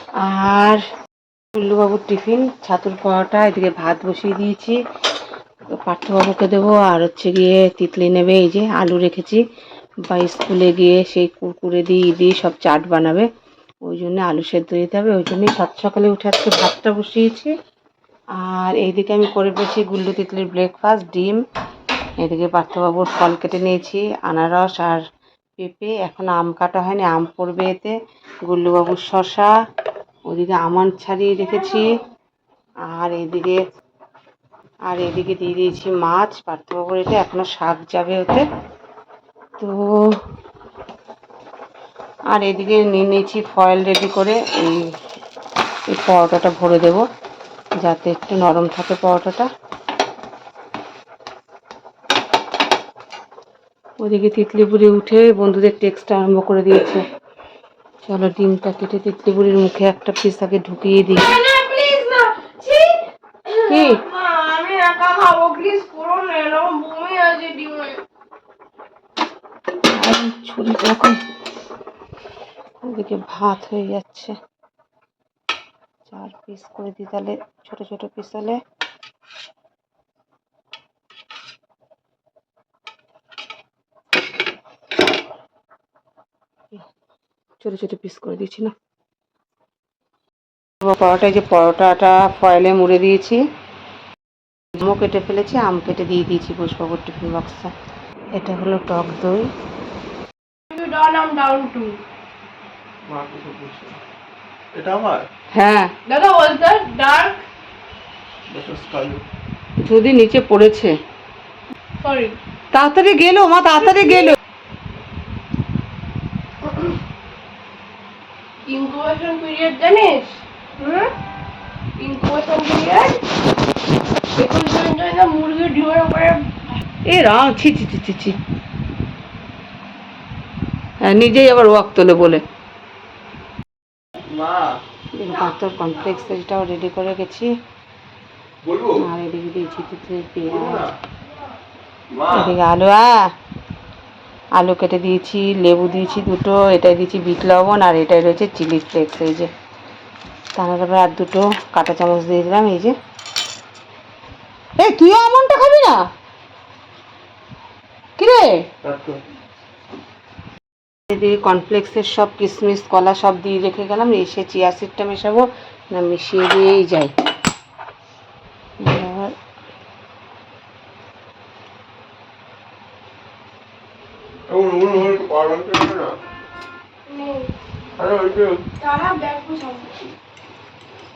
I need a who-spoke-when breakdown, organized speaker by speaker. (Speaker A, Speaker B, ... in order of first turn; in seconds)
Speaker A: 0.2-0.8, 1.6-4.8, 5.8-9.4, 10.1-13.3, 13.8-17.5, 18.4-21.4, 22.2-25.0, 25.6-27.9, 28.5-29.5, 30.3-31.9, 32.9-33.6, 34.9-38.4, 39.6-40.1, 42.3-44.8, 45.9-47.0, 47.8-49.5, 54.0-57.0, 58.0-61.3, 63.7-64.0, 70.0-71.2, 72.8-74.3, 76.1-78.6, 87.6-88.7, 90.8-93.4, 94.8-97.7, 98.4-99.5, 105.5-105.9, 109.8-110.9, 112.7-114.3, 127.0-128.4, 131.1-132.4, 135.2-137.5, 138.9-140.8, 142.3-143.1, 144.6-149.5, 150.6-152.9, 154.8-156.0, 158.2-158.6, 161.1-167.1, 168.8-169.3
Speaker B: 61.3-68.0, 100.7-102.0, 106.0-107.4, 112.0-112.4, 118.7-121.1, 122.0-123.2, 124.3-126.5, 177.1-177.5, 178.8-180.0
Speaker C: 103.1-104.0, 104.7-105.2, 108.5-109.2, 134.3-134.7, 138.6-139.0, 142.1-142.5, 158.8-159.2, 174.5-176.2, 178.0-178.6